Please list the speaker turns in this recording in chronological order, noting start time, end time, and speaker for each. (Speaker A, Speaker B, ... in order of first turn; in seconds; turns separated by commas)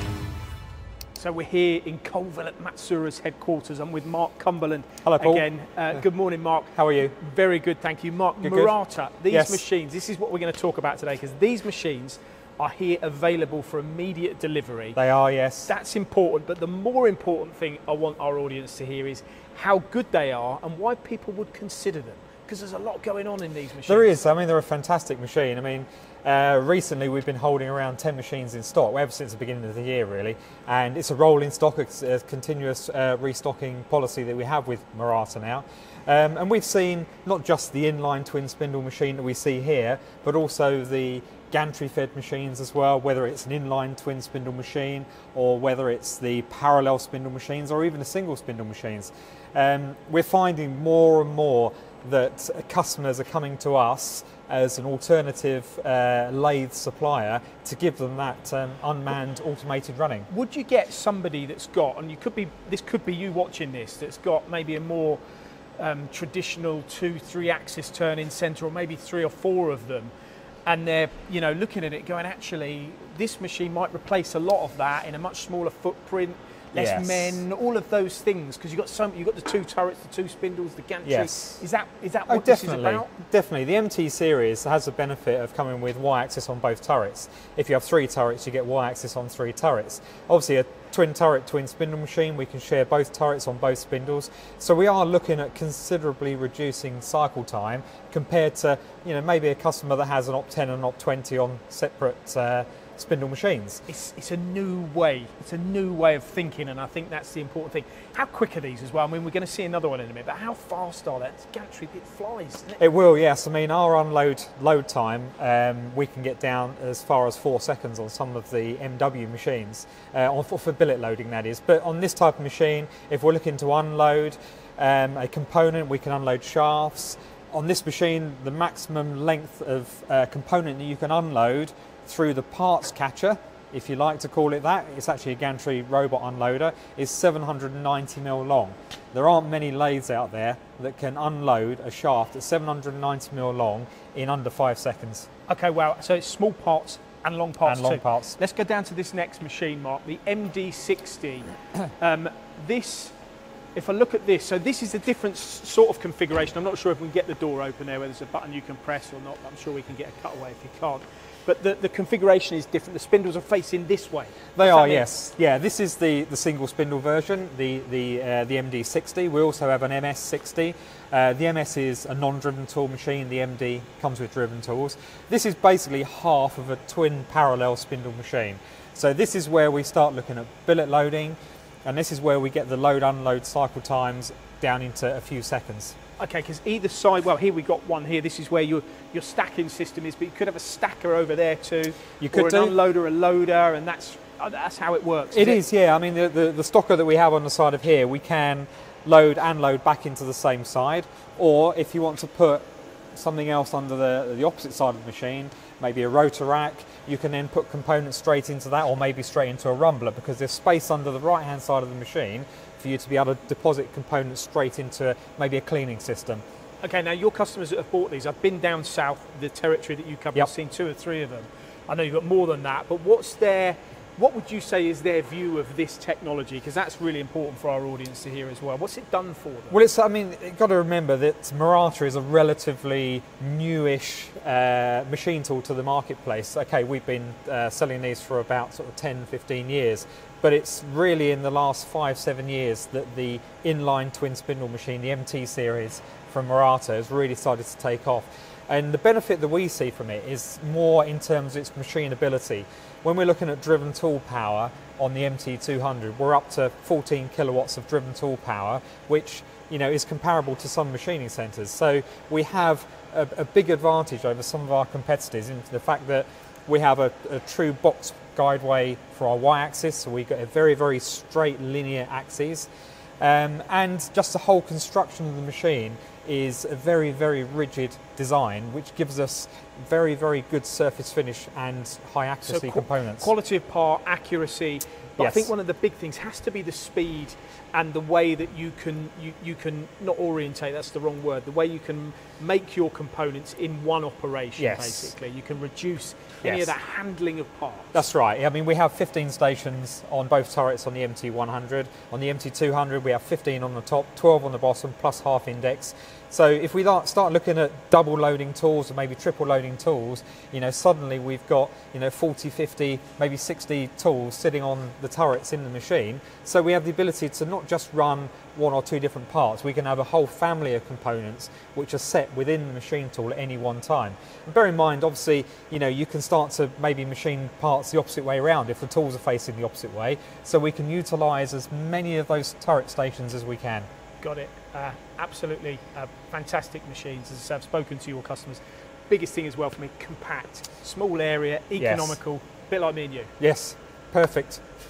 Speaker A: 1.1-15.0, Speaker B: 5.0-5.4, Speaker B: 6.7-7.2, Speaker B: 8.4-8.7, Speaker B: 9.3-9.6, Speaker B: 14.9-15.7, Speaker A: 15.7-24.1, Speaker B: 23.9-60.3, Speaker A: 60.3-65.2, Speaker A: 65.8-70.1, Speaker A: 70.7-83.1, Speaker B: 76.7-77.4, Speaker B: 81.0-81.6, Speaker B: 82.3-103.8, Speaker A: 103.9-112.8, Speaker B: 112.8-145.3, Speaker A: 145.5-153.2, Speaker B: 147.6-148.4, Speaker A: 153.7-165.1, Speaker B: 164.6-185.9, Speaker A: 186.2-195.6, Speaker B: 192.2-192.7, Speaker B: 195.3-216.4, Speaker A: 216.8-229.8, Speaker B: 229.7-272.7, Speaker B: 273.2-283.3, Speaker A: 282.4-298.0, Speaker B: 285.2-285.5, Speaker B: 294.6-295.1, Speaker B: 296.4-296.7, Speaker B: 297.9-333.9, Speaker A: 334.2-343.3, Speaker B: 341.8-342.2, Speaker B: 343.4-344.6